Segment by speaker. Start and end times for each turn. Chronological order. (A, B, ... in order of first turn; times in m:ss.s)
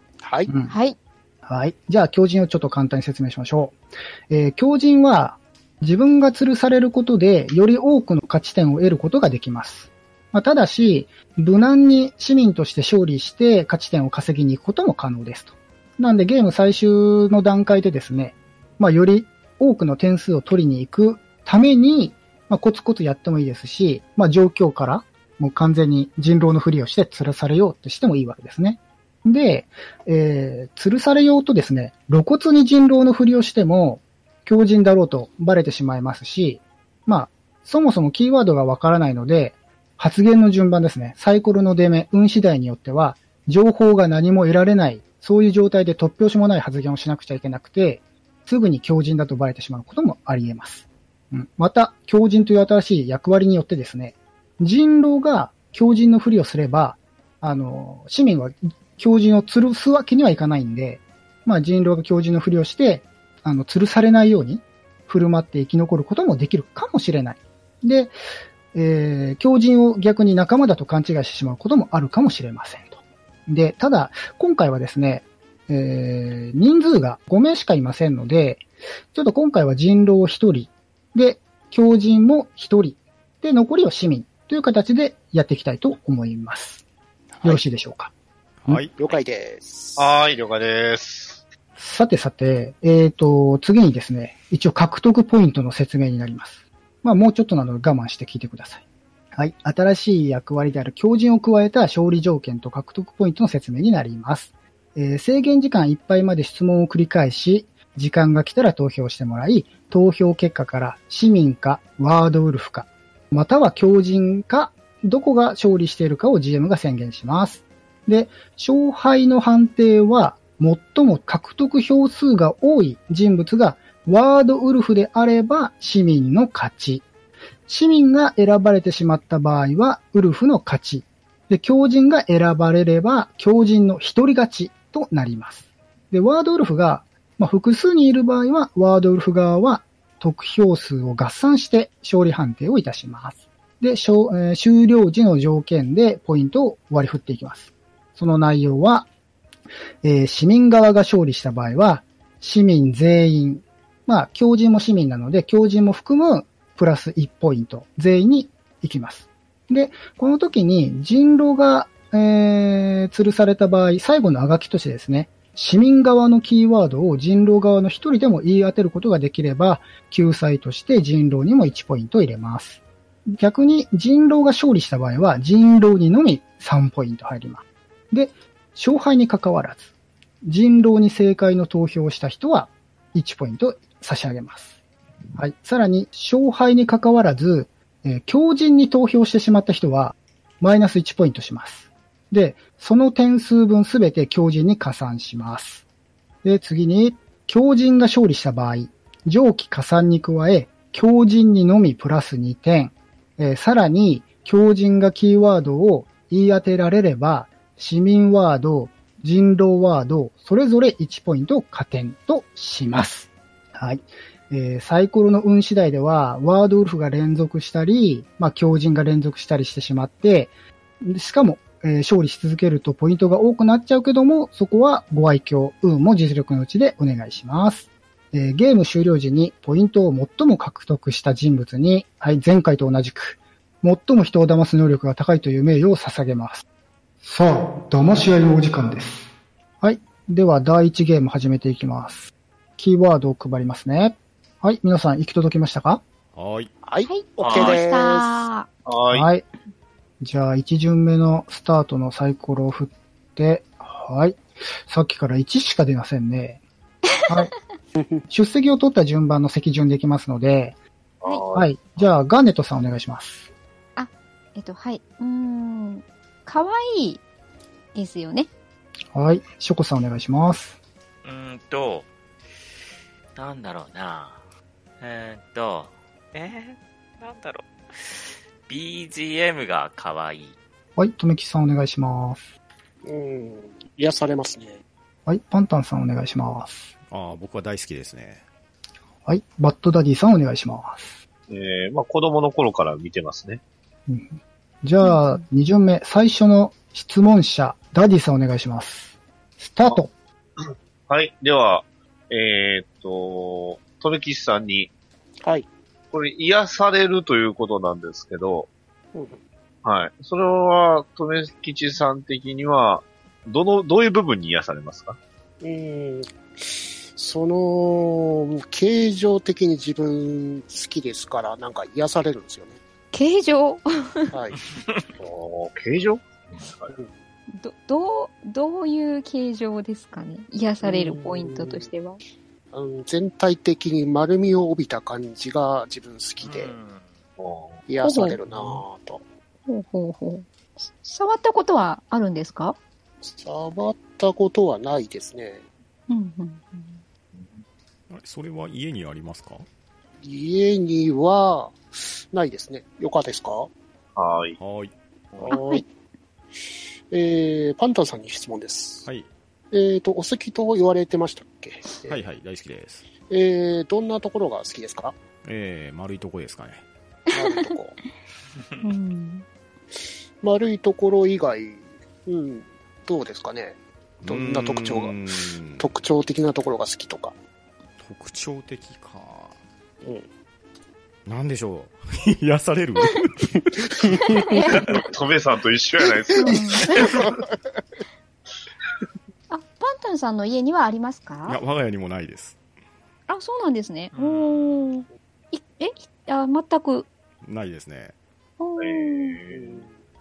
0:00.2-0:00.5 A
0:00.5-0:00.7 B
0:00.7-0:01.0 C
0:01.4-0:03.7 B
0:04.3-1:08.1 B
1:08.7-1:26.8 B
1:27.3-1:27.6 A
1:27.4-1:28.1 B
1:28.6-1:29.0 D
1:29.0-1:30.2 A
1:30.0-1:31.4 E
1:31.8-1:38.8 B
1:39.3-2:07.1 B
2:07.7-2:29.1 B
2:30.0-2:59.9 B
3:00.4-3:04.8 B
3:05.4-3:15.8 B
3:16.4-3:40.5 B
3:41.0-3:56.6 B
3:57.2-3:59.3 B
3:59.8-4:06.0 B
4:06.3-4:06.7 D
4:06.8-4:08.5 A
4:07.0-4:08.7 C
4:07.4-4:07.8 F
4:08.8-4:09.3 E
4:09.1-4:09.4 B
4:10.2-4:16.6 B
4:17.3-4:17.5 B
4:17.9-4:18.2 A
4:18.3-4:20.8 B
4:21.2-4:21.9 E
4:21.5-4:23.5 B
4:24.0-4:27.2 C
4:27.9-4:28.5 C
4:29.1-4:30.8 B
4:31.2-4:32.1 F
4:33.4-4:34.4 F
4:35.0-4:40.5 F
4:41.0-4:42.5 B
4:43.0-4:44.8 A
4:45.2-4:46.9 B
4:47.1-4:48.4 D
4:49.2-4:51.2 B
4:51.5-4:53.6 E
4:54.1-5:00.1 B
4:55.0-4:55.4 C
5:00.6-5:04.9 E
5:06.1-5:08.7 E
5:09.1-5:09.4 A
5:09.8-5:15.2 E
5:15.6-5:22.8 A
5:23.1-5:24.3 C
5:24.3-5:24.6 A
5:24.7-5:25.1 F
5:25.2-5:26.9 E
5:27.5-5:32.2 C
5:30.8-5:31.9 A
5:32.7-5:36.7 A
5:36.4-5:37.1 F
5:37.4-5:37.8 E
5:37.9-5:39.2 A
5:38.0-5:38.4 C
5:39.7-5:42.8 C
5:43.2-5:45.6 A
5:46.1-5:47.0 C
5:47.3-5:47.6 E
5:48.1-5:49.6 D
5:50.2-5:53.7 A
5:54.2-5:54.6 E
5:54.6-5:54.9 D
5:55.4-5:55.8 A
5:55.5-5:55.8 C
5:57.1-5:59.1 A
5:59.7-6:02.2 A
6:02.1-6:03.0 D
6:03.3-6:05.1 A
6:05.4-6:06.8 D
6:07.3-6:07.7 C
6:07.3-6:08.0 A
6:08.8-6:09.4 C
6:10.4-6:15.2 A
6:14.2-6:15.9 D
6:15.8-6:17.3 A
6:18.0-6:19.6 D
6:20.0-6:20.3 A
6:21.2-6:23.7 D
6:23.9-6:24.4 A
6:24.3-6:25.0 C
6:24.7-6:27.3 E
6:26.3-6:27.8 A
6:26.4-6:27.2 C
6:29.5-6:31.6 C
6:31.4-6:32.6 D
6:33.3-6:37.1 C
6:34.1-6:34.9 F
6:37.4-6:38.2 D
6:38.6-6:39.4 C
6:38.8-6:39.9 E
6:39.5-6:40.0 A